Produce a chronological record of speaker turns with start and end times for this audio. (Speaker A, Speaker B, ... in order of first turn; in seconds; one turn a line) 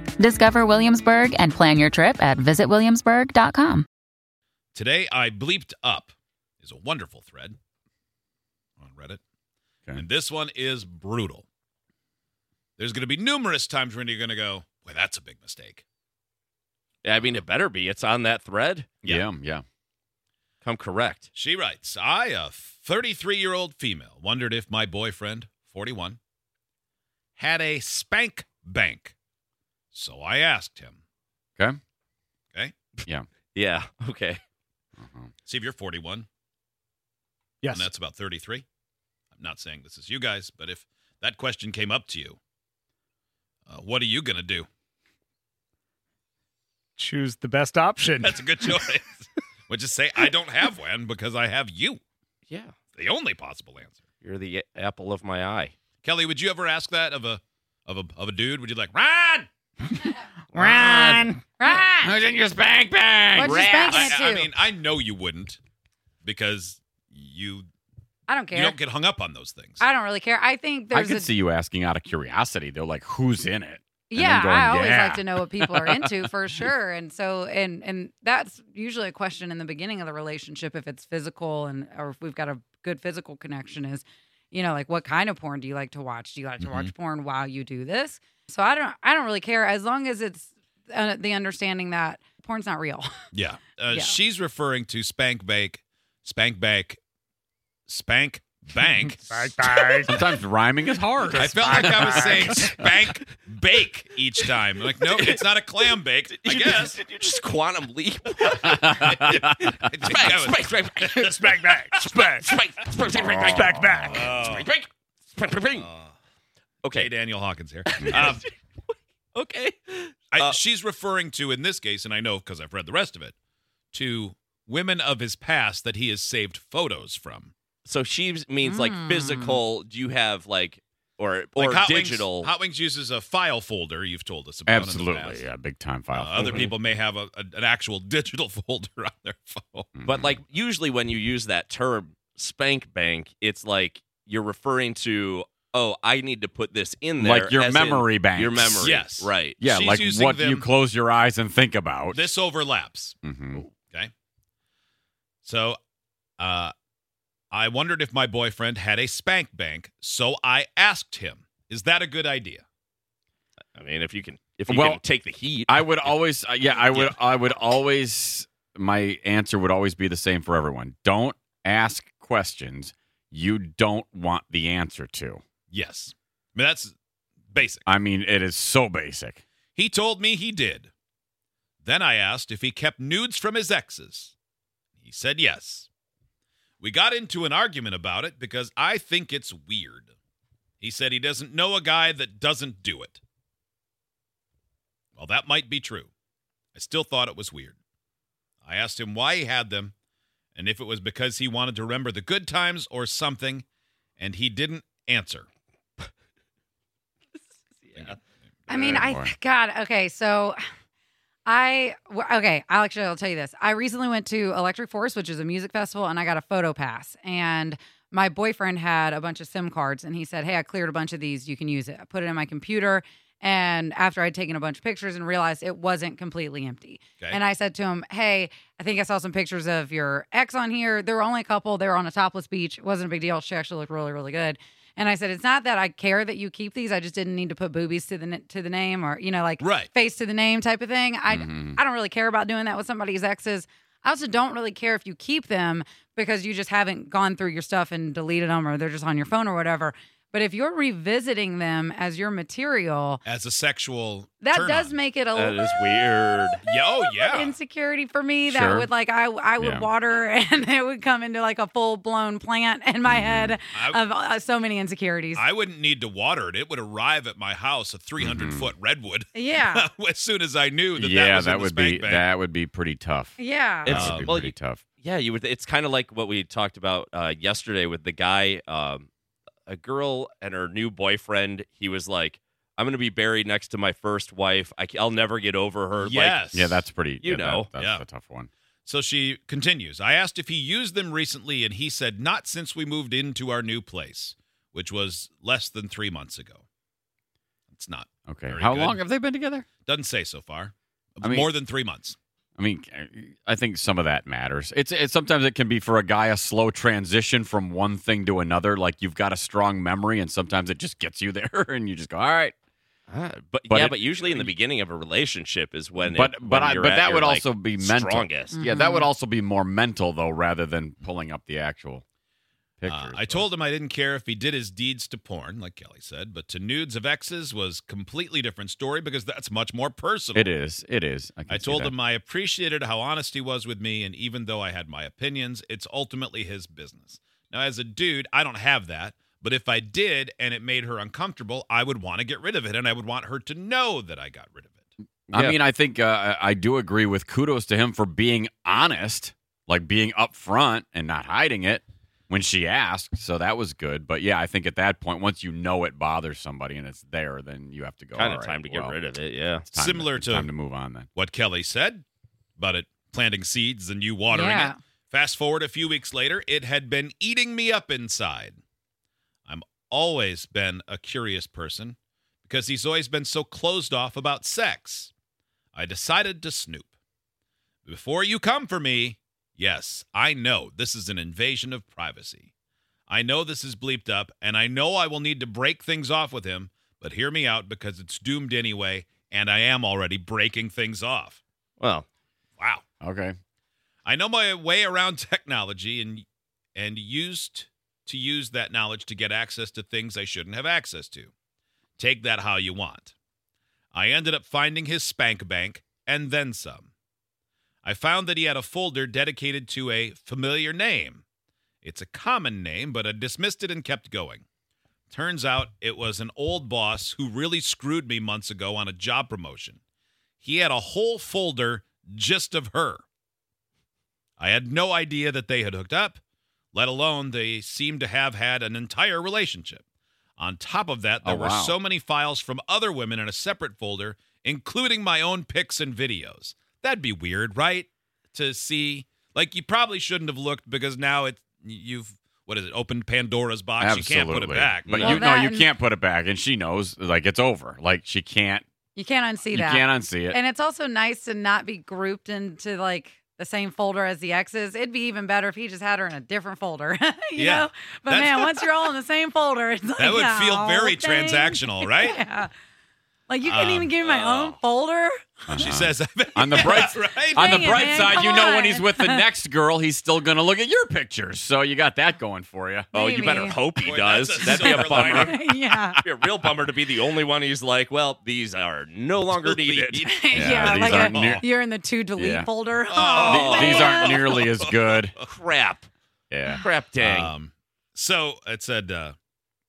Speaker A: 0.2-3.9
Speaker B: 4.8-7.6
Speaker B: 8.8-9.2
Speaker B: 10.0-11.4
Speaker B: 12.8-15.8
Speaker C: 17.0-18.9
Speaker D: 19.1-19.6
Speaker C: 20.6-21.3
Speaker B: 21.3-26.2
Speaker B: 27.4-29.1
Speaker B: 29.9-31.0
Speaker C: 33.5-34.4
Speaker D: 35.0-35.3
Speaker B: 35.5-36.3
Speaker E: 37.6-37.9
Speaker B: 37.7-38.6
Speaker B: 39.4-42.4
Speaker B: 43.7-44.7
Speaker E: 47.0-49.0
Speaker B: 48.2-52.0
Speaker B: 53.0-54.0
Speaker C: 54.2-55.7
Speaker B: 56.0-59.5
Speaker B: 60.5-61.2
Speaker D: 60.6-64.1
Speaker E: 60.8-61.3
Speaker F: 61.5-62.1
Speaker F: 63.3-64.5
Speaker C: 63.5-64.1
Speaker B: 63.8-65.6
Speaker B: 66.2-67.7
Speaker F: 68.3-68.8
Speaker B: 68.5-69.8
Speaker F: 69.8-71.3
Speaker D: 70.9-76.1
Speaker F: 74.1-93.1
Speaker B: 86.6-86.9
Speaker B: 93.3-97.0
Speaker F: 93.9-94.2
Speaker B: 97.9-99.5
Speaker E: 99.3-100.3
Speaker D: 99.6-102.7
Speaker E: 101.3-102.7
Speaker B: 101.4-107.0
Speaker C: 102.5-102.9
Speaker C: 105.0-115.9
Speaker D: 108.7-109.1
Speaker B: 109.3-111.8
Speaker E: 111.2-112.6
Speaker D: 113.3-114.2
Speaker E: 113.4-114.2
Speaker B: 114.1-114.7
Speaker B: 115.8-116.1
Speaker C: 116.8-117.1
Speaker B: 116.9-118.4
Speaker C: 117.9-118.5
Speaker C: 119.3-120.6
Speaker B: 120.3-123.3
Speaker B: 123.9-127.5
Speaker C: 127.8-132.5
Speaker F: 128.6-129.6
Speaker B: 131.6-135.4
Speaker D: 134.7-136.7
Speaker B: 136.1-139.9
Speaker C: 136.4-136.7
Speaker D: 140.0-140.4
Speaker C: 140.1-149.6
Speaker D: 147.2-148.9
Speaker B: 148.8-150.7
Speaker D: 149.6-152.2
Speaker B: 152.1-153.2
Speaker D: 153.2-153.7
Speaker B: 155.4-155.8
Speaker B: 156.4-156.7
Speaker B: 157.5-162.6
Speaker C: 163.8-166.1
Speaker D: 164.7-165.0
Speaker D: 165.7-175.4
Speaker C: 166.9-167.2
Speaker B: 175.7-176.9
Speaker B: 177.5-177.8
Speaker D: 177.8-179.4
Speaker B: 179.8-180.9
Speaker B: 181.8-184.3
Speaker B: 185.0-185.9
Speaker B: 186.8-190.1
Speaker B: 190.8-193.2
Speaker B: 195.2-196.1
Speaker B: 196.8-197.8
Speaker B: 198.7-199.9
Speaker B: 200.5-203.7
Speaker B: 204.2-205.5
Speaker C: 207.9-208.2
Speaker F: 208.7-210.6
Speaker D: 208.7-209.3
Speaker F: 211.5-253.2
Speaker B: 239.6-239.9
Speaker D: 241.3-241.8
Speaker B: 253.2-254.9
Speaker F: 254.4-265.4
Speaker C: 255.3-256.6
Speaker B: 256.6-257.6
Speaker D: 258.5-258.9
Speaker D: 259.6-259.9
Speaker D: 263.0-263.6
Speaker B: 263.7-264.0
Speaker B: 265.4-272.3
Speaker D: 268.2-268.7
Speaker F: 269.3-269.9
Speaker D: 270.9-274.8
Speaker F: 273.4-274.1
Speaker B: 273.9-274.4
Speaker C: 274.1-279.1
Speaker C: 279.6-286.4
Speaker B: 286.0-286.8
Speaker D: 286.5-288.5
Speaker C: 287.2-287.7
Speaker B: 287.8-288.0
Speaker B: 288.9-296.6
Speaker B: 297.7-299.0
Speaker D: 298.3-299.6
Speaker B: 299.9-302.2
Speaker D: 301.2-301.5
Speaker D: 302.6-312.5
Speaker C: 313.1-318.6
Speaker D: 313.7-314.5
Speaker D: 316.0-322.0
Speaker F: 318.5-319.1
Speaker D: 322.8-323.5
Speaker B: 322.9-330.5
Speaker D: 330.3-331.9
Speaker B: 331.5-344.9
Speaker D: 345.3-359.0
Speaker C: 345.3-345.6
Speaker C: 358.1-359.7
Speaker D: 359.7-361.1
Speaker B: 359.8-360.5
Speaker B: 361.1-362.0
Speaker B: 362.6-368.6
Speaker F: 364.3-364.8
Speaker B: 369.5-375.1
Speaker B: 375.7-376.9
Speaker B: 377.9-382.5
Speaker B: 383.1-391.4
Speaker C: 391.8-392.1
Speaker B: 392.6-392.8
Speaker D: 393.0-393.4
Speaker B: 394.0-401.3
Speaker B: 402.0-403.1
Speaker B: 403.9-406.9
Speaker B: 407.8-411.2
Speaker B: 411.8-414.4
Speaker B: 415.1-419.8
Speaker B: 420.4-423.0
Speaker B: 424.4-426.2
Speaker B: 426.7-429.8
Speaker B: 430.4-445.0
Speaker D: 431.2-431.7
Speaker D: 443.8-448.6
Speaker C: 444.9-445.2
Speaker F: 445.0-445.7
Speaker F: 448.9-462.5
Speaker D: 449.5-450.4
Speaker B: 457.4-458.9
Speaker B: 460.0-462.2
Speaker F: 463.3-465.6
Speaker B: 463.4-463.9
Speaker C: 464.0-464.6
Speaker D: 465.5-472.9
Speaker B: 465.5-468.5
Speaker F: 466.6-469.2
Speaker F: 472.9-473.6
Speaker C: 472.9-475.4
Speaker B: 473.8-475.4
Speaker F: 474.4-476.0
Speaker C: 476.0-481.4
Speaker B: 479.3-480.0
Speaker F: 480.0-484.4
Speaker D: 480.3-481.5
Speaker D: 482.1-482.5
Speaker B: 482.9-483.5
Speaker D: 483.2-485.1
Speaker C: 483.2-485.9
Speaker D: 486.3-486.6
Speaker C: 486.6-487.3
Speaker B: 487.0-489.1